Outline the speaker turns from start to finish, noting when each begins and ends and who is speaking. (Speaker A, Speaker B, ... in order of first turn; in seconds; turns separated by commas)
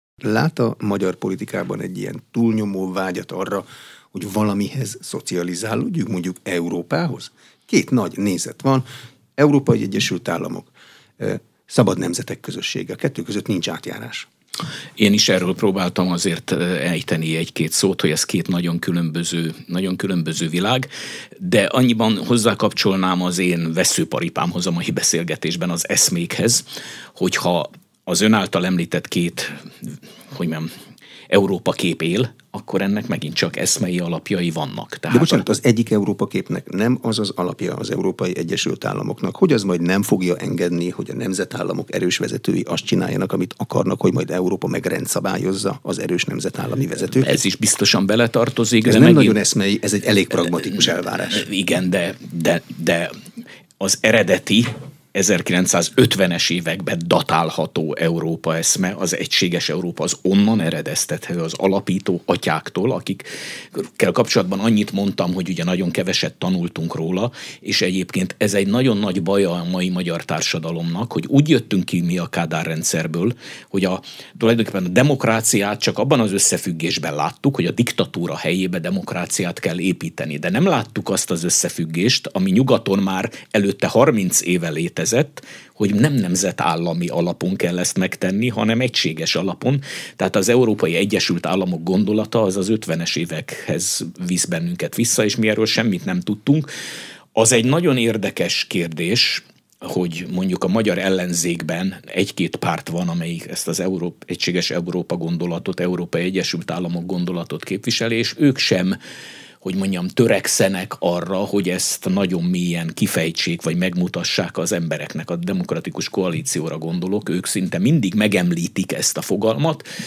Speaker A: 0.2-8.9, Speaker A: 9.4-14.3, Speaker B: 15.0-30.7, Speaker B: 31.3-35.4, Speaker A: 35.1-47.4, Speaker B: 47.1-49.4, Speaker A: 48.8-51.5, Speaker B: 51.3-53.1, Speaker B: 53.8-96.7, Speaker B: 97.3-109.0, Speaker B: 109.6-119.8